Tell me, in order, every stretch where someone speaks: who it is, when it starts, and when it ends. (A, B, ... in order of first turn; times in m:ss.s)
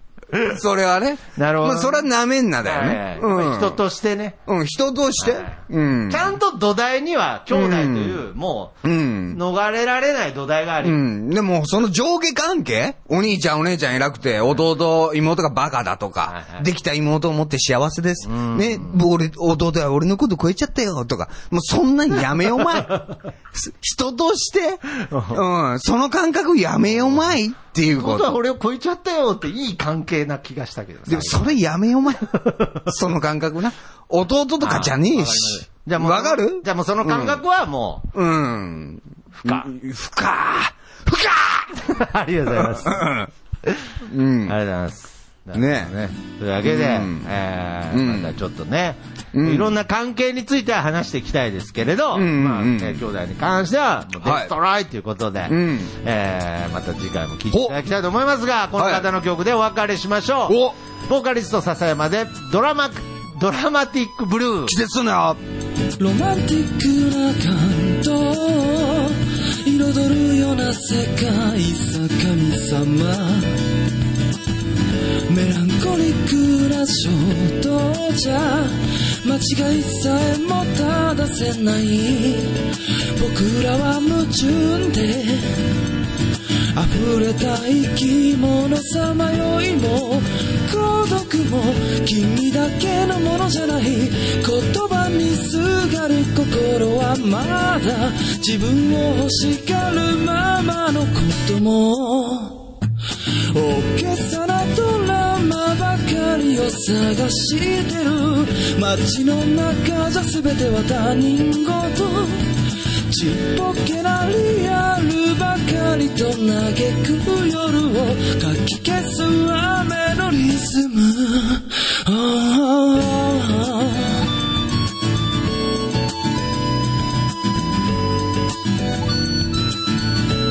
0:00.3-0:03.8 A
0:01.4-0:02.1 B
0:02.6-0:04.4 B
0:04.5-0:06.4 A
0:05.2-0:11.0 B
0:07.5-0:08.2 A
0:08.8-0:09.4 A
0:10.8-0:28.4 A
0:16.3-0:16.6 B
0:18.2-0:19.0 B
0:22.8-0:23.1 B
0:25.0-0:25.4 B
0:27.8-0:31.6 B
0:31.1-0:37.4 A
0:32.4-0:32.8 B
0:34.6-0:38.1 B
0:38.1-0:41.8 A
0:39.4-0:39.7 B
0:41.8-0:43.1 B
0:42.5-0:43.3 A
0:44.1-0:44.6 A
0:44.4-1:04.8 B
0:45.6-0:45.9 A
0:46.6-0:47.3 A
0:47.9-0:48.3 A
0:49.3-0:49.7 A
0:52.1-0:53.0 A
0:54.2-0:54.5 A
0:55.5-0:55.9 A
0:58.8-0:59.1 A
1:00.5-1:00.8 A
1:04.7-1:05.4 A
1:06.0-1:13.6 C
1:15.3-1:25.7 C
1:26.7-1:42.7 C
1:43.5-1:52.5 C
1:53.1-2:04.3 C